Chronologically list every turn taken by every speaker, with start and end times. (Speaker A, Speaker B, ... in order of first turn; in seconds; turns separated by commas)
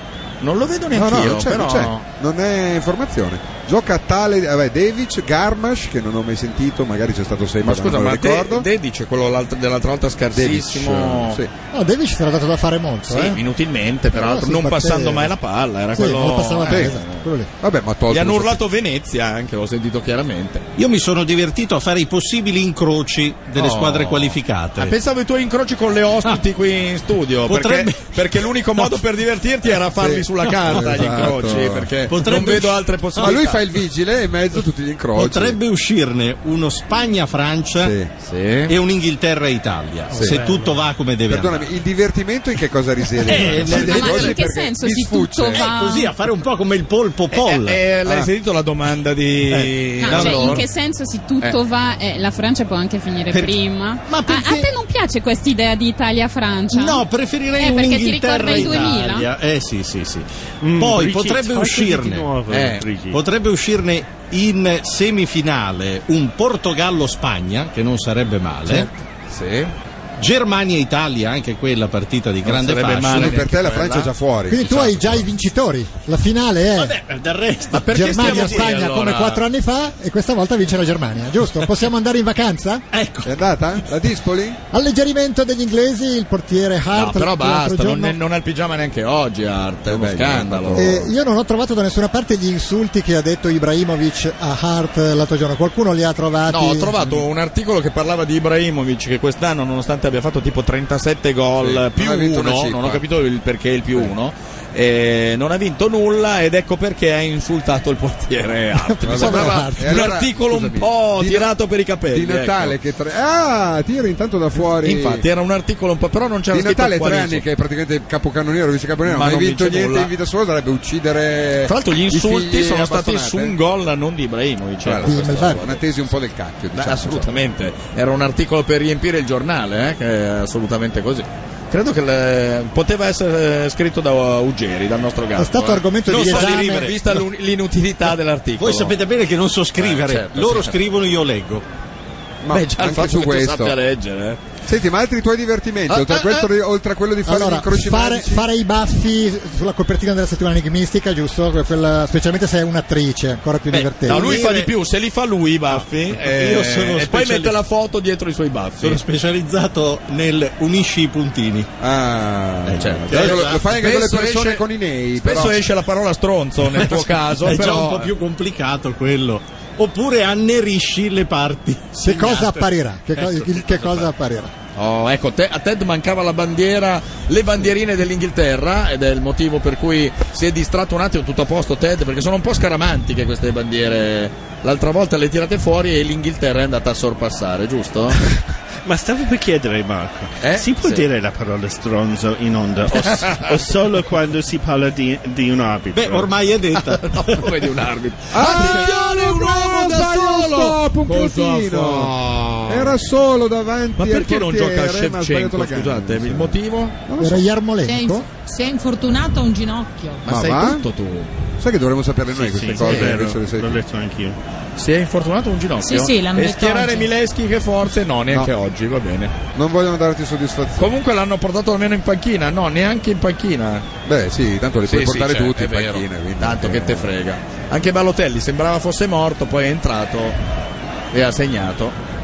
Speaker A: 0.4-2.0, Speaker B: 0.9-8.7, Speaker A: 7.6-11.4, Speaker B: 10.3-11.5, Speaker C: 11.7-13.4, Speaker A: 13.1-17.3, Speaker C: 14.1-15.3, Speaker C: 15.9-17.5, Speaker B: 16.7-17.0, Speaker B: 17.6-18.6, Speaker A: 18.1-20.6, Speaker D: 20.8-25.0, Speaker A: 23.6-33.6, Speaker D: 27.4-29.0, Speaker B: 30.0-31.9, Speaker D: 32.1-33.4, Speaker B: 33.2-35.6, Speaker D: 35.1-38.0, Speaker B: 37.8-38.1, Speaker A: 38.2-38.8, Speaker D: 38.7-41.7, Speaker B: 40.1-40.6, Speaker B: 41.3-45.7, Speaker D: 43.2-44.4, Speaker A: 43.4-44.3, Speaker E: 43.7-46.1, Speaker D: 45.5-47.8, Speaker A: 47.3-50.6, Speaker D: 49.5-50.6, Speaker E: 50.0-57.0, Speaker D: 53.3-54.7, Speaker D: 56.7-62.4, Speaker E: 57.6-59.3, Speaker F: 60.6-63.2, Speaker A: 62.5-62.8, Speaker D: 63.1-68.9, Speaker A: 68.7-69.7, Speaker D: 70.2-73.4, Speaker A: 72.4-74.1, Speaker B: 73.1-75.3, Speaker C: 74.5-77.0, Speaker D: 76.8-78.7, Speaker A: 77.7-79.4, Speaker C: 77.9-82.8, Speaker D: 82.9-83.4, Speaker B: 83.2-84.6, Speaker C: 84.7-88.2, Speaker A: 86.9-90.9, Speaker B: 89.9-91.1, Speaker C: 90.8-97.2, Speaker A: 96.5-112.8, Speaker B: 101.6-103.0, Speaker C: 108.8-110.1, Speaker B: 109.1-111.5, Speaker B: 112.1-115.2, Speaker A: 114.8-117.5, Speaker B: 116.5-123.5, Speaker A: 119.0-120.1, Speaker A: 121.7-125.8, Speaker B: 124.8-127.3, Speaker C: 125.0-125.7, Speaker A: 126.8-139.0, Speaker C: 135.4-137.1, Speaker D: 136.2-136.8, Speaker D: 138.6-141.6, Speaker A: 139.8-140.8, Speaker B: 142.4-143.8, Speaker A: 142.5-144.4, Speaker B: 144.7-148.4, Speaker A: 145.9-146.5, Speaker C: 147.2-154.4, Speaker D: 153.7-154.7, Speaker A: 154.1-159.0, Speaker D: 155.7-157.6, Speaker D: 158.8-161.7, Speaker B: 161.8-165.6, Speaker D: 162.7-163.6, Speaker A: 162.8-164.6, Speaker A: 165.2-168.1, Speaker D: 166.7-172.6, Speaker C: 172.0-174.5, Speaker D: 173.2-173.7, Speaker A: 173.7-174.0, Speaker A: 174.8-188.2, Speaker F: 188.8-196.3, Speaker A: 190.4-191.0, Speaker A: 193.0-193.5, Speaker D: 195.9-197.6, Speaker A: 196.9-203.0, Speaker B: 198.3-202.1, Speaker D: 198.5-198.9, Speaker B: 202.7-207.5, Speaker A: 204.0-207.0, Speaker C: 207.2-208.3, Speaker G: 207.9-210.2, Speaker A: 210.2-211.3, Speaker B: 210.3-210.8, Speaker B: 211.6-213.8, Speaker F: 212.4-214.4, Speaker A: 212.6-213.2, Speaker A: 214.8-219.4, Speaker G: 215.8-217.1, Speaker B: 219.6-220.9, Speaker A: 220.8-223.9, Speaker B: 224.1-227.1, Speaker A: 224.9-230.4, Speaker A: 231.1-232.0